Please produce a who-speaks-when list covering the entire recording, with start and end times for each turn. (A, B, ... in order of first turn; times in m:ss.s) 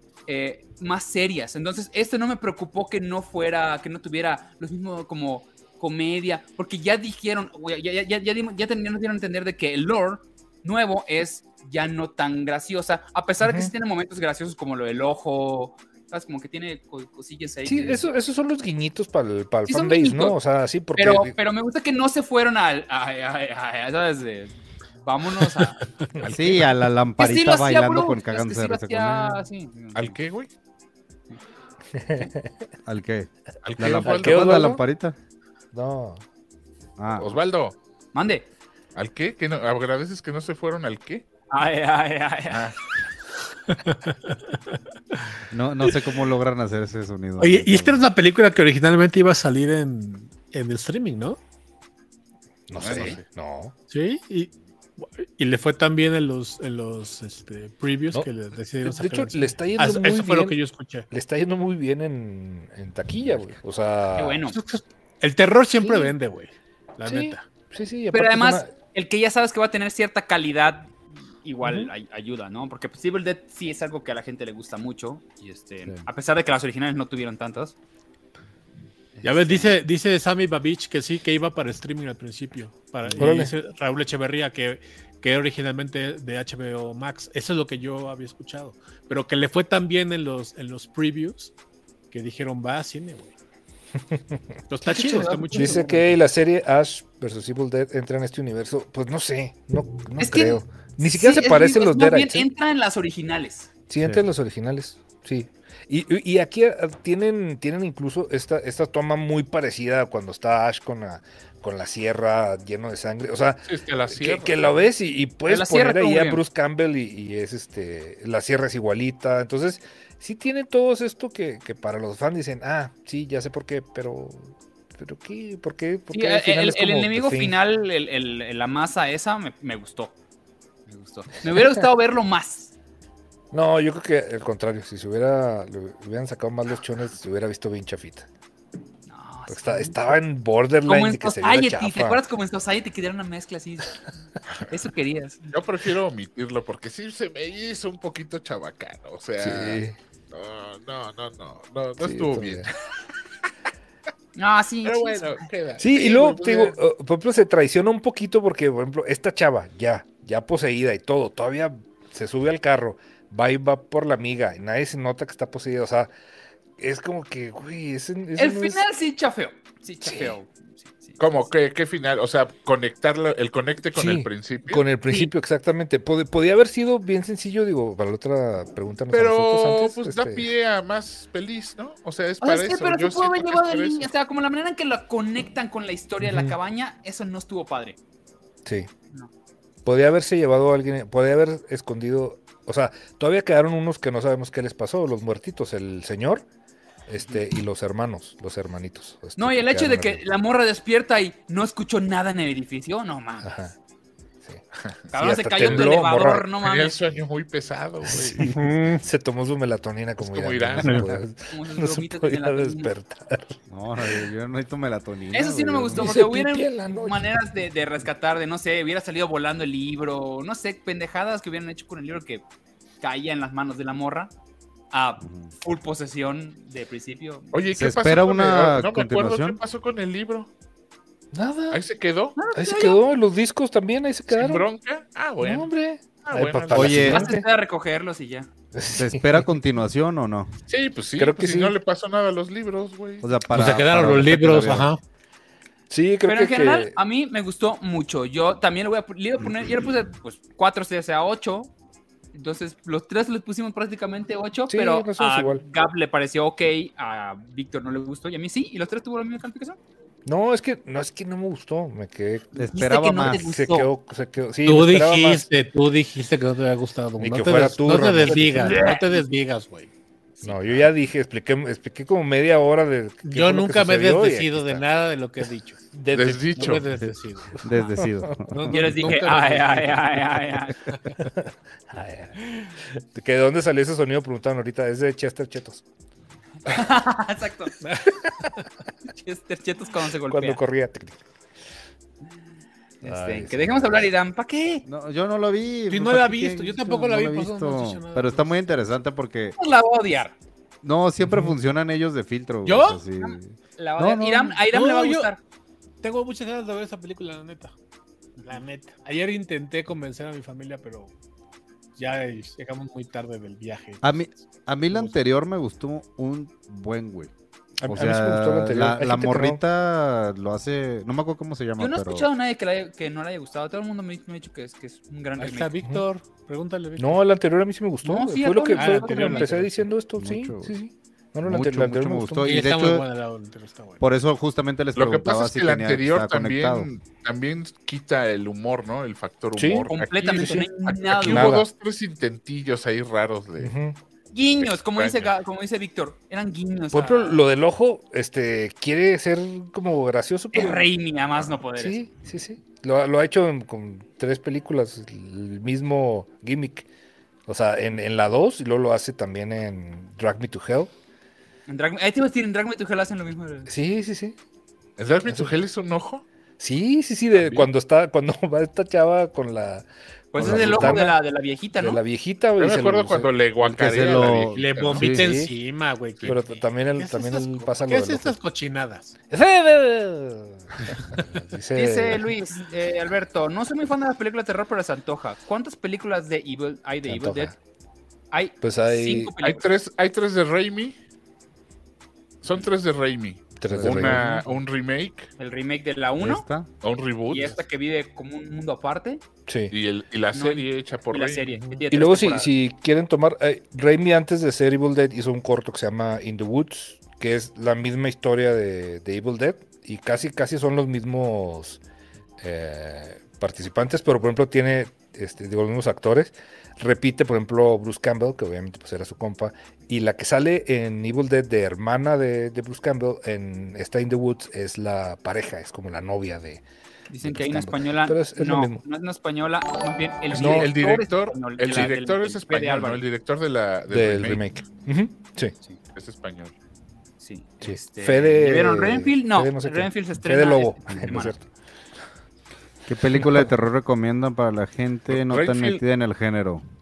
0:00.3-0:18.0 A
0:13.4-0:13.7 B
0:17.6-0:21.3 B
0:19.7-0:20.4 A
0:21.0-0:25.8 A
0:26.2-0:26.6 C
0:26.2-0:29.4 D
0:27.2-0:30.2 A
0:29.9-0:30.5 C
0:31.9-0:32.5 B
0:32.8-0:35.2 D
0:33.6-0:34.7 C
0:34.0-0:34.8 B
0:35.7-0:36.2 B
0:37.0-0:37.3 D
0:37.1-0:37.8 C
0:38.1-0:38.5 A
0:38.9-0:41.2 C
0:41.5-0:42.7 A
0:42.5-0:42.8 C
0:43.7-0:45.2 E
0:45.5-0:48.0 D
0:47.4-0:51.4 E
0:52.7-0:53.7 B
0:52.8-0:53.2 C
0:53.9-1:01.1 E
0:58.8-1:00.6 B
1:01.1-1:04.4 B
1:04.2-1:04.6 A
1:04.5-1:07.5 E
1:05.8-1:06.1 B
1:07.0-1:08.7 B
1:08.1-1:17.7 A
1:11.6-1:11.9 B
1:19.2-1:19.7 A
1:19.2-1:31.5 E
1:23.2-1:23.5 B
1:32.1-1:33.3 E
1:34.1-1:34.4 B
1:34.7-1:36.0 E
1:34.8-1:35.9 A
1:35.5-1:42.5 B
1:40.2-1:43.7 A
1:43.9-2:07.6 B
1:53.6-1:54.8 C
1:55.5-1:56.4 A
2:06.1-2:10.1 A
2:10.9-2:12.7 A
2:13.5-2:18.3 B
2:19.1-2:20.2 A
2:19.5-2:22.2 B
2:20.8-2:24.0 A
2:24.7-2:25.4 A
2:25.5-2:32.7 C
2:29.4-2:30.0 B
2:32.0-2:32.7 B
2:34.4-2:35.4 A
2:34.8-2:36.8 C
2:35.8-2:46.1 B
2:46.8-2:48.8 B
2:48.4-2:51.4 A
2:50.0-2:50.3 B
2:51.2-2:54.8 C
2:53.9-3:00.5 B
2:59.1-3:04.1 C
3:02.4-3:08.0 A
3:06.2-3:06.5 B
3:09.8-3:16.4 B
3:17.1-3:20.2 B
3:19.4-3:23.5 A
3:23.4-3:23.7 B
3:25.1-3:26.9 A
3:25.1-3:26.4 B
3:25.6-3:25.9 C
3:26.6-3:28.4 C
3:28.1-3:34.2 B
3:30.2-3:31.1 C
3:31.5-3:32.9 A
3:33.7-3:36.1 D
3:35.3-3:42.4 A
3:35.9-3:37.3 B
3:43.0-3:44.3 A
3:44.9-3:47.6 A
3:45.2-3:45.5 D
3:47.5-3:50.5 C
3:47.7-3:49.6 D
3:51.3-3:51.8 B
3:51.7-3:52.4 C
3:52.4-3:53.0 A
3:52.5-3:54.6 B
3:54.3-3:55.7 C
3:55.4-3:57.4 B
3:56.2-3:57.2 C
3:56.7-3:57.3 D
3:57.0-3:58.5 A
3:58.7-3:59.5 B
3:58.9-4:00.5 D
4:00.7-4:03.3 C
4:01.2-4:01.7 B
4:03.2-4:04.9 D
4:03.5-4:05.0 E
4:05.9-4:06.9 B
4:06.2-4:11.7 A
4:12.3-4:19.8 A
4:14.7-4:15.6 B
4:20.2-4:22.6 B
4:22.5-4:23.4 D
4:22.6-4:23.9 A
4:23.2-4:25.4 B
4:24.6-4:29.9 E
4:27.2-4:29.0 B
4:28.4-4:29.2 A
4:30.4-4:34.8 B
4:33.2-4:35.8 E
4:35.9-4:36.8 B
4:36.1-4:36.9 C
4:36.6-4:37.6 E
4:37.6-4:39.0 D
4:38.5-4:41.2 E
4:38.7-4:40.8 A
4:41.9-4:42.4 B
4:43.0-4:45.8 B
4:46.6-4:47.7 A
4:47.8-4:48.1 E
4:49.2-4:50.6 A
4:50.3-4:51.2 B
4:53.0-4:54.8 A
4:53.0-4:54.1 B
4:54.8-4:59.6 D
4:55.9-4:58.6 E
4:59.6-5:00.3 A
5:00.8-5:04.6 D
5:02.6-5:03.0 E
5:03.2-5:05.4 A
5:04.6-5:05.3 E
5:06.0-5:07.7 E
5:08.4-5:11.1 E
5:12.0-5:14.4 E
5:14.0-5:17.3 D
5:17.8-5:19.6 B
5:17.8-5:22.3 D
5:21.8-5:25.8 A
5:25.4-5:27.2 E
5:27.0-5:32.7 B
5:28.0-5:29.6 A
5:28.7-5:29.7 E
5:30.2-5:30.8 D
5:31.4-5:33.1 D
5:32.4-5:34.0 E
5:34.0-5:36.9 D
5:34.9-5:43.7 C
5:39.6-5:40.6 B
5:39.9-5:41.6 A
5:41.2-5:41.7 B
5:43.6-5:44.0 B
5:44.3-5:47.4 A
5:44.6-5:45.3 C
5:46.9-5:50.8 B
5:50.5-5:52.0 A
5:51.8-5:56.9 B
5:57.5-6:00.9 B
6:01.7-6:03.7 A
6:03.7-6:04.4 B
6:05.0-6:06.2 C
6:05.3-6:05.6 B
6:06.6-6:11.2 B
6:07.4-6:07.7 C
6:10.3-6:12.0 A
6:10.4-6:11.0 D
6:11.8-6:13.3 B
6:12.6-6:15.1 C
6:13.6-6:15.3 D
6:14.5-6:19.1 E
6:15.0-6:15.5 B
6:16.3-6:18.4 B
6:19.3-6:22.3 B
6:21.7-6:27.5 A
6:27.1-6:27.5 B
6:28.3-6:29.6 A
6:28.6-6:29.3 B
6:29.4-6:31.0 C
6:32.4-6:35.3 C
6:33.6-6:34.2 B
6:33.7-6:34.5 D
6:35.4-6:36.4 A
6:36.2-6:36.7 D
6:36.8-6:37.5 C
6:37.3-6:39.2 A
6:39.5-6:39.7 B
6:39.7-6:41.5 C
6:40.3-6:42.5 A
6:41.9-6:51.8 B
6:52.4-7:06.6 B
7:07.1-7:13.0 A
7:07.2-7:08.8 B
7:10.3-7:10.7 B
7:10.3-7:14.4 C
7:13.9-7:15.5 B
7:15.9-7:16.5 C
7:17.2-7:21.3 A
7:17.6-7:21.4 B
7:22.9-7:26.6 D
7:25.1-7:25.8 C